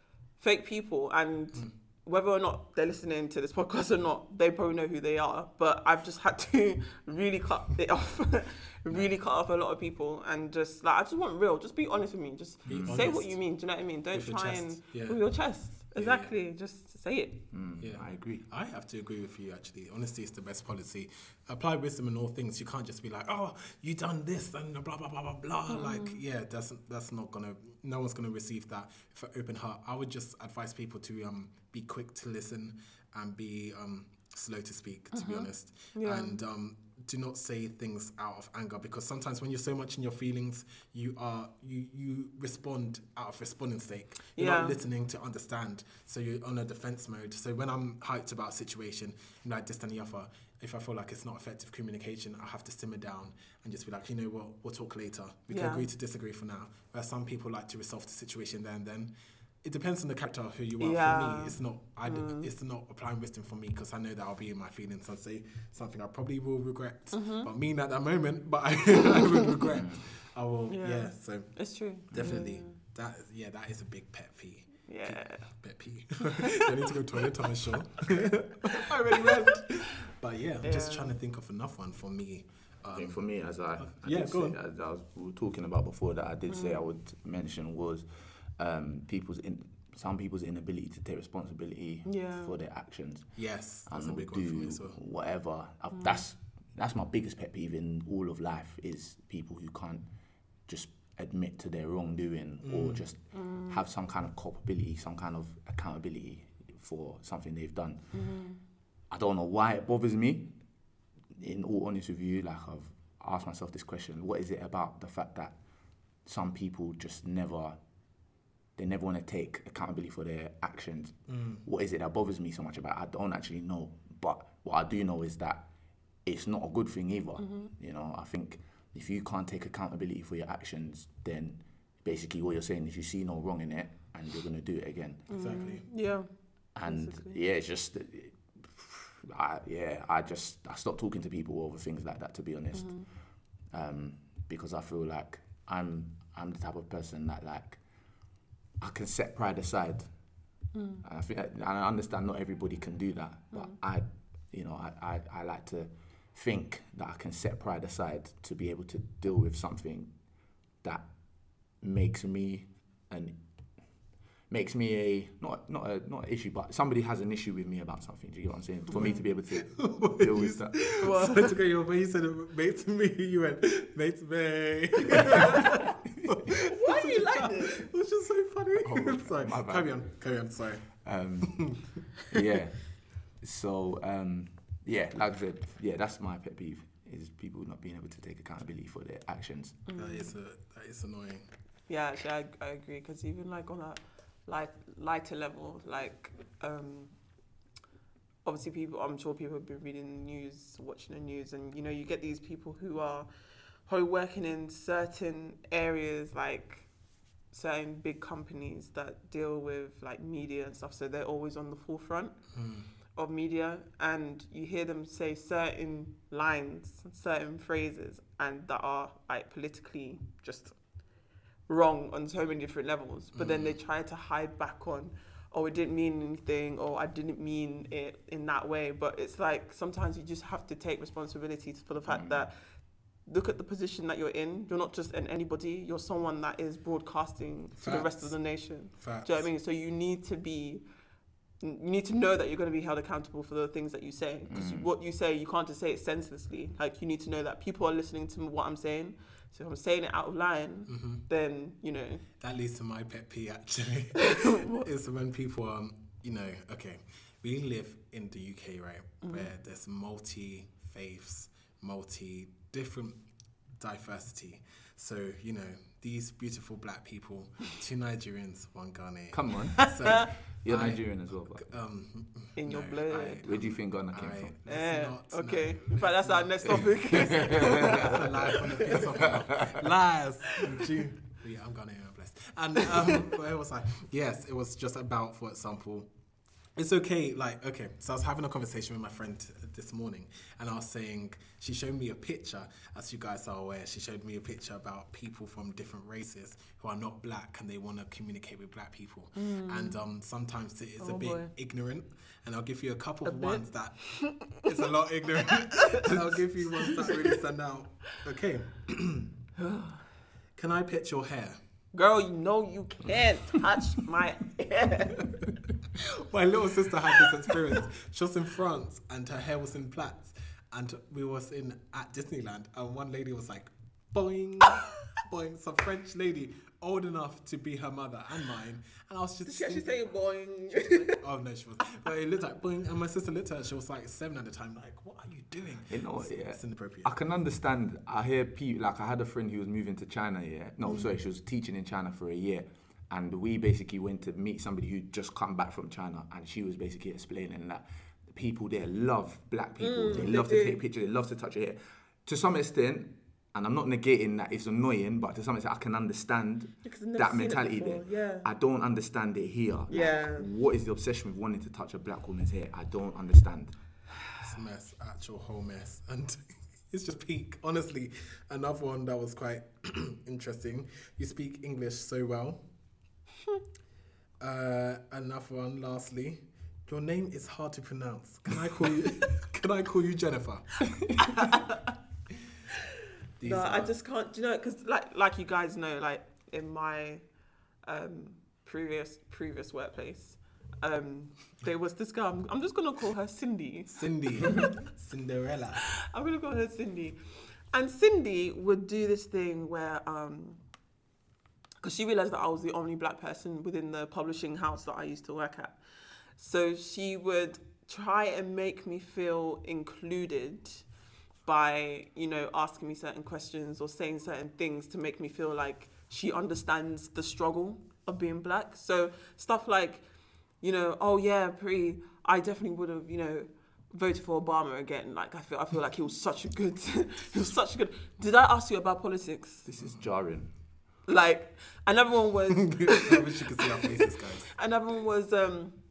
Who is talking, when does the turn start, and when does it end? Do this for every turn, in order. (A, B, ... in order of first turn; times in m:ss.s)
0:00.4-0:17.4 A
0:12.7-0:13.5 B
0:12.7-0:13.0 C
0:14.1-0:16.3 B
0:17.5-0:18.4 C
0:17.8-1:24.6 B
0:25.7-0:26.2 A
0:35.1-0:36.4 A
0:44.4-0:44.8 A
0:55.5-0:55.9 A
1:00.8-1:02.5 A
1:07.1-1:07.5 A
1:09.8-1:10.0 C
1:10.7-1:12.7 A
1:14.9-1:15.5 A
1:20.6-1:21.2 A
1:22.9-1:40.1 C
1:26.5-1:26.8 A
1:32.0-1:32.6 A
1:33.4-1:35.0 B
1:36.0-1:36.2 A
1:40.7-1:48.2 C
1:42.6-1:43.1 B
1:43.3-1:43.8 A
1:48.1-1:48.6 A
1:49.1-1:50.6 C
1:51.3-1:55.6 C
1:56.2-1:57.8 C
1:58.8-2:05.6 C
2:01.3-2:01.6 B
2:06.2-2:15.3 C
2:07.4-2:07.7 A
2:15.3-2:17.4 A
2:15.3-2:15.8 B
2:16.8-2:23.0 C
2:22.7-2:23.1 A
2:23.7-2:27.8 C
2:28.8-2:30.1 C
2:30.7-2:31.0 A
2:31.0-2:40.1 C
2:40.8-2:41.1 C
2:41.6-2:43.4 C
2:44.5-2:51.0 C
2:48.9-3:01.9 B
2:48.9-2:49.2 A
2:51.0-2:51.6 A
2:56.6-2:57.9 A
2:58.8-3:00.0 C
3:01.0-3:09.8 C
3:09.9-3:10.3 A
3:10.0-3:11.5 B
3:11.9-3:17.1 A
3:18.4-3:23.3 A
3:23.8-3:26.9 A
3:27.5-3:32.6 A
3:32.5-3:32.9 B
3:33.1-3:40.8 A
3:41.7-4:00.8 A
3:43.3-3:43.8 B
3:52.1-3:52.4 C
3:57.8-3:59.5 B
4:01.6-4:12.2 A
4:04.5-4:04.9 C
4:10.9-4:11.2 B
4:12.4-4:46.1 B
4:14.3-4:14.9 A
4:19.2-4:19.5 A
4:29.3-4:31.6 C
4:30.0-4:30.3 A
4:32.6-4:33.5 A
4:33.4-4:34.6 C
4:34.7-4:39.1 A
4:37.2-4:38.2 C
4:46.8-5:09.3 B
4:59.4-5:00.0 A
5:01.0-5:01.5 A
5:03.2-5:04.6 A
5:07.0-5:07.3 A
5:09.6-5:10.0 A
5:10.6-5:11.6 B
5:11.9-5:15.4 A
5:16.0-5:29.9 B
5:29.4-5:31.2 A
5:31.2-5:37.1 B
5:35.9-6:03.8 C
5:49.8-5:50.8 A
5:56.8-5:58.5 A
5:59.9-6:00.5 A
6:04.4-6:12.6 B
6:14.4-6:20.7 B
6:21.2-6:21.8 A
6:21.2-6:21.5 B
6:23.4-6:23.9 B
6:23.4-6:27.2 A
6:27.8-6:34.7 A
6:33.9-6:35.8 B
6:36.0-6:37.2 A
6:37.7-6:40.6 A
6:41.8-6:45.8 A
6:46.4-6:50.8 A
6:51.4-7:00.0 A
7:00.6-7:09.7 A
7:09.6-7:10.5 C
7:11.1-7:15.8 A
7:12.6-7:14.5 B